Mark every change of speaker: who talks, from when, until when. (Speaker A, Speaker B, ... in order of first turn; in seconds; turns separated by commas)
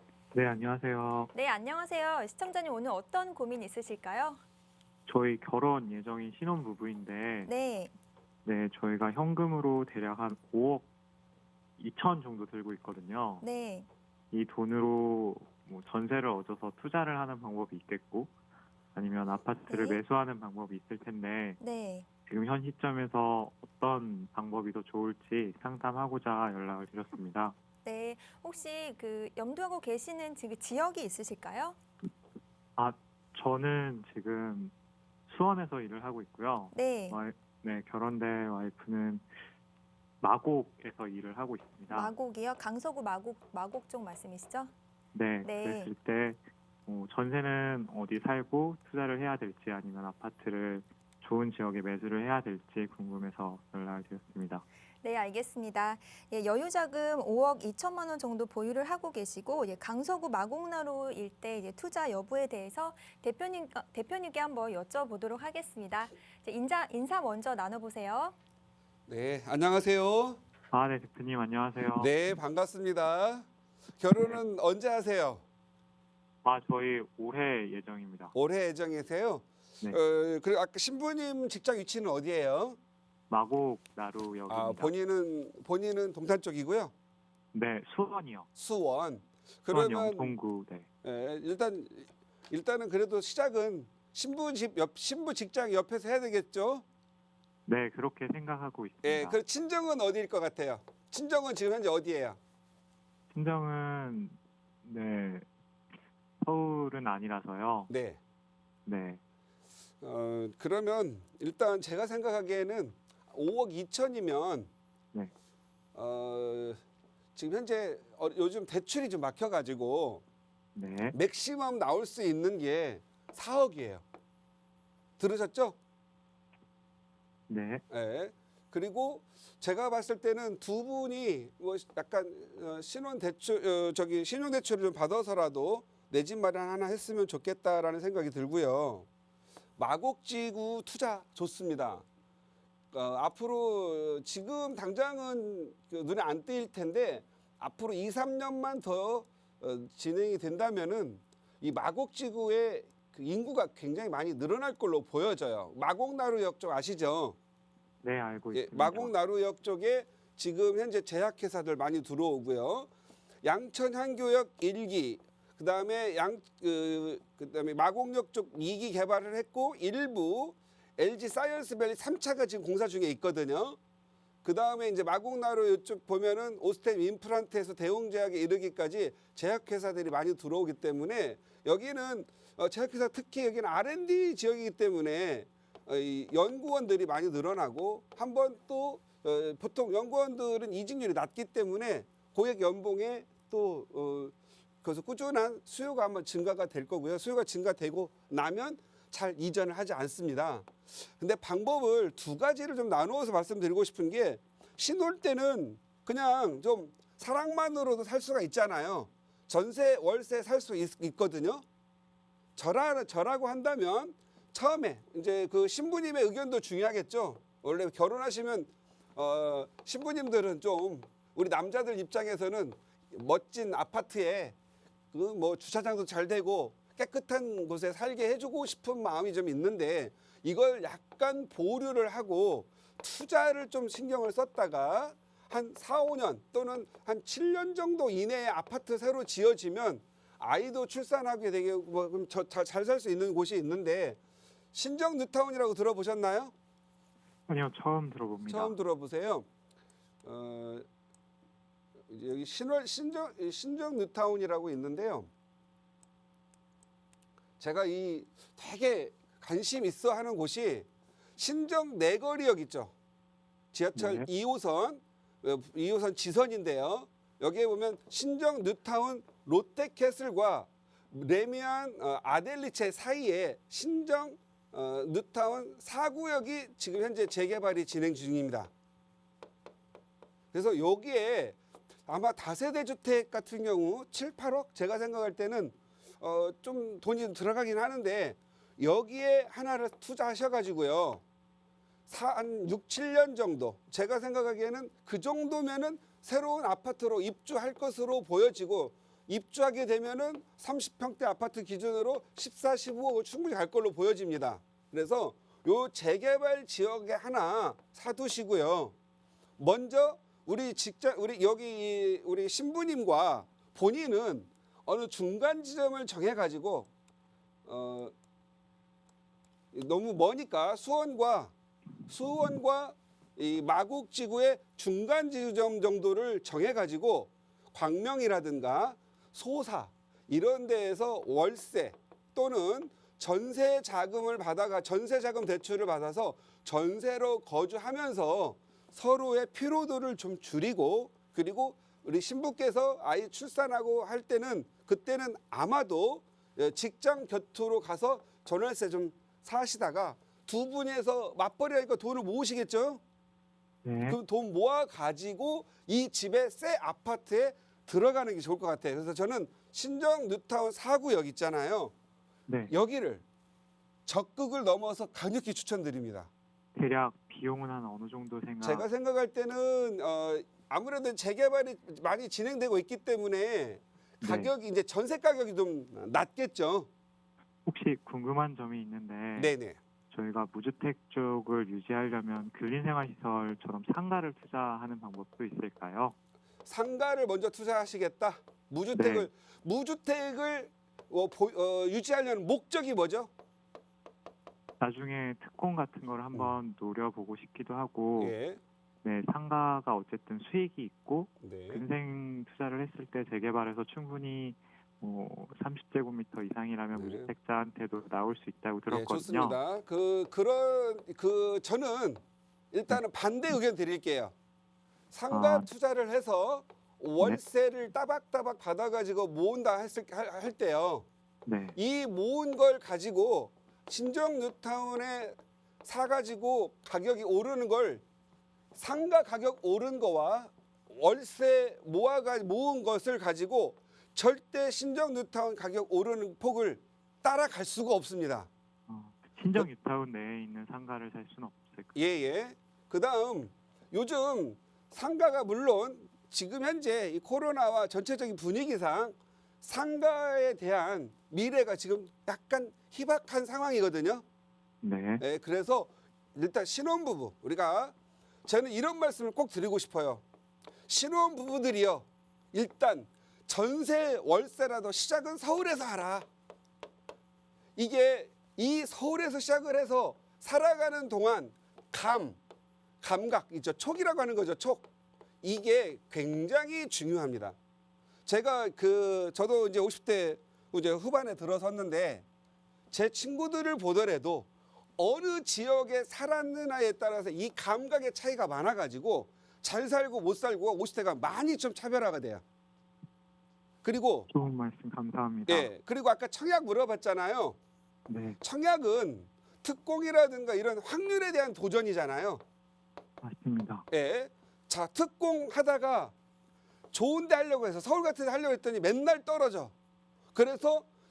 Speaker A: 0.3-1.3, Speaker B: 1.3-4.4, Speaker A: 5.1-7.5, Speaker B: 7.5-7.9, Speaker A: 8.4-10.9, Speaker A: 11.8-13.4, Speaker B: 13.4-13.9, Speaker A: 14.3-18.3, Speaker A: 18.9-21.6, Speaker B: 19.7-20.0, Speaker B: 21.6-22.1, Speaker A: 22.3-27.6, Speaker B: 27.9-31.8, Speaker A: 32.8-34.7, Speaker A: 35.3-39.3, Speaker B: 36.7-37.2, Speaker A: 40.2-42.1, Speaker B: 41.9-44.7, Speaker A: 45.1-54.6, Speaker B: 45.4-45.9, Speaker B: 55.0-68.4, Speaker C: 69.1-70.4, Speaker A: 70.7-72.2, Speaker C: 71.9-73.5, Speaker C: 74.0-75.4, Speaker A: 76.4-78.3, Speaker C: 78.3-82.8, Speaker A: 83.3-84.9, Speaker C: 84.5-86.9, Speaker A: 87.5-88.5, Speaker C: 88.6-90.3, Speaker A: 89.7-90.9, Speaker C: 91.0-96.8, Speaker A: 97.7-99.4, Speaker C: 99.0-102.4, Speaker A: 103.3-105.5, Speaker A: 106.4-107.9, Speaker C: 107.9-108.2, Speaker A: 108.9-109.2, Speaker C: 110.0-114.7, Speaker C: 116.0-116.8, Speaker C: 117.4-120.2, Speaker A: 120.8-121.2, Speaker C: 121.1-124.0, Speaker C: 125.2-125.8, Speaker A: 127.5-127.8, Speaker C: 127.9-139.1, Speaker C: 139.8-142.1, Speaker C: 142.9-157.4, Speaker A: 158.0-159.1, Speaker C: 158.5-162.9, Speaker C: 163.4-173.8, Speaker C: 174.4-211.6, Speaker C: 212.6-224.6, Speaker C: 225.1-244.2, Speaker C: 244.7-246.5, Speaker A: 247.5-248.8, Speaker C: 248.5-249.5, Speaker C: 250.2-250.9, Speaker C: 252.1-255.3, Speaker C: 257.6-262.9, Speaker C: 263.7-278.7, Speaker A: 263.9-264.3, Speaker C: 280.5-291.2, Speaker C: 292.1-308.9, Speaker C: 309.6-316.9, Speaker C: 317.7-318.1, Speaker C: 319.7-321.5, Speaker C: 322.1-353.0, Speaker A: 353.9-354.2, Speaker C: 354.1-361.9, Speaker C: 362.7-363.2, Speaker C: 364.1-366.3, Speaker A: 366.8-368.9, Speaker C: 368.6-376.9, Speaker A: 374.2-374.5, Speaker A: 377.7-379.5, Speaker C: 379.4-379.8, Speaker A: 380.1-386.1, Speaker C: 386.6-393.3, Speaker A: 388.9-389.3, Speaker A: 394.8-398.4, Speaker C: 398.2-398.6, Speaker A: 399.0-409.6, Speaker C: 401.4-401.8, Speaker C: 406.9-407.3, Speaker C: 408.9-414.3, Speaker C: 415.1-421.1, Speaker A: 415.3-415.7, Speaker A: 421.5-421.8, Speaker C: 421.8-428.0, Speaker C: 428.8-438.5, Speaker A: 438.9-441.9, Speaker C: 441.9-454.2, Speaker A: 454.8-455.2, Speaker C: 455.2-457.9, Speaker C: 458.5-460.2, Speaker C: 460.9-466.3, Speaker C: 467.8-472.4, Speaker C: 473.0-474.9, Speaker C: 475.4-477.6, Speaker C: 478.3-482.2, Speaker C: 482.9-492.4, Speaker C: 493.8-494.3, Speaker A: 494.3-495.7, Speaker C: 495.5-497.6, Speaker A: 498.1-498.4, Speaker C: 498.4-502.4, Speaker A: 503.2-503.9, Speaker C: 503.9-506.1, Speaker C: 506.9-509.7, Speaker C: 510.3-510.9